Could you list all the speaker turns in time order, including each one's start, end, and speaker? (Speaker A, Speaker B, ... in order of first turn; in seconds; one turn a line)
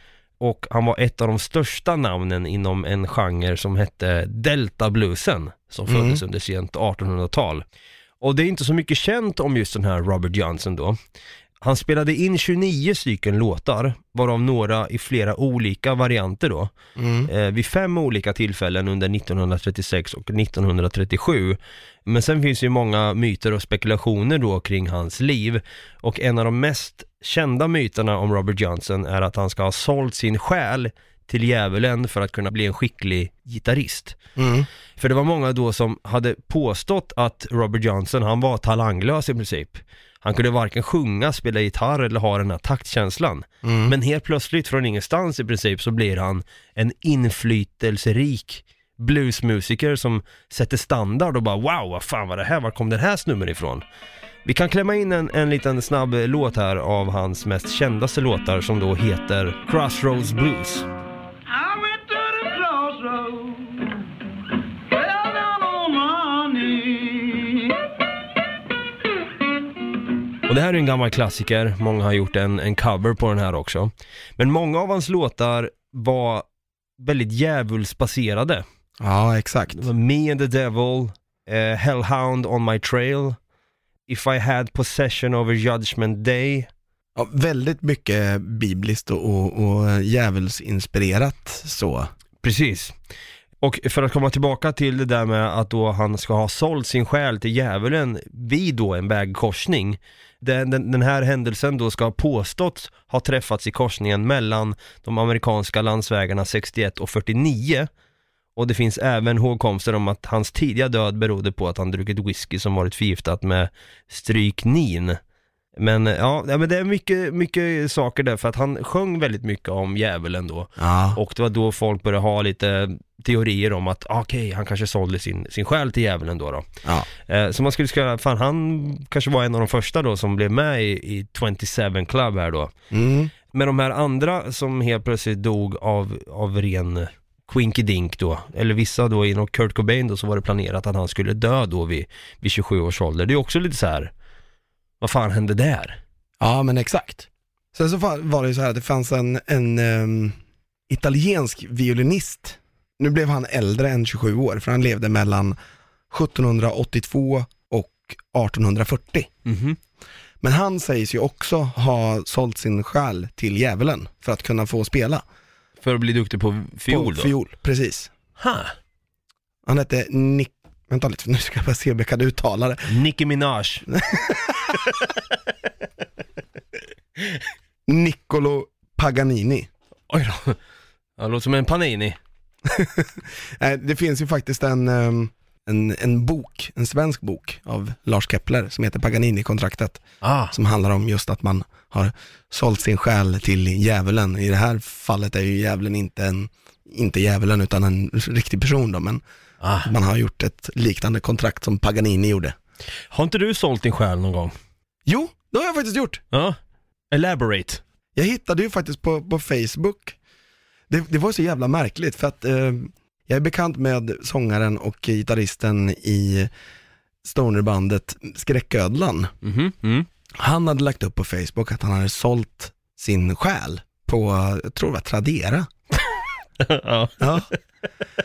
Speaker A: 0.4-7.6
Speaker B: 5.9-6.2
Speaker A: 8.2-11.0
Speaker A: 11.6-16.7
Speaker B: 17.0-17.3
Speaker A: 17.3-34.2
Speaker B: 34.4-34.7
Speaker A: 35.0-53.8
Speaker B: 43.6-43.9
Speaker A: 54.4-60.9
Speaker A: 70.5-76.4
Speaker A: 77.0-78.6
Speaker B: 79.0-79.8
Speaker A: 79.7-83.4
Speaker A: 84.1-86.7
Speaker B: 87.2-92.1
Speaker A: 92.4-92.9
Speaker A: 93.6-107.9
Speaker A: 108.5-115.2
Speaker A: 115.8-126.7
Speaker B: 120.8-121.2
Speaker A: 127.2-132.7
Speaker B: 132.9-133.3
Speaker A: 133.5-144.1
Speaker A: 145.0-146.0
Speaker B: 146.4-150.4
Speaker B: 150.9-155.6
Speaker B: 156.1-159.3
Speaker A: 159.4-159.8
Speaker B: 160.4-165.2
Speaker A: 165.8-167.3
Speaker B: 166.9-168.1
Speaker A: 168.4-168.7
Speaker B: 169.6-172.9
Speaker A: 172.9-173.8
Speaker B: 173.9-174.8
Speaker B: 177.9-179.7
Speaker A: 180.1-180.6
Speaker A: 181.2-182.2
Speaker B: 182.7-199.2
Speaker A: 190.2-190.5
Speaker A: 199.6-199.9
Speaker B: 199.8-202.5
Speaker A: 203.1-204.5
Speaker B: 205.1-206.2
Speaker A: 206.3-206.6
Speaker A: 207.1-207.8
Speaker B: 208.1-210.2
Speaker B: 210.9-216.5
Speaker B: 217.2-219.3
Speaker A: 219.4-220.1
Speaker B: 220.3-225.7
Speaker A: 226.6-227.6
Speaker B: 227.2-227.5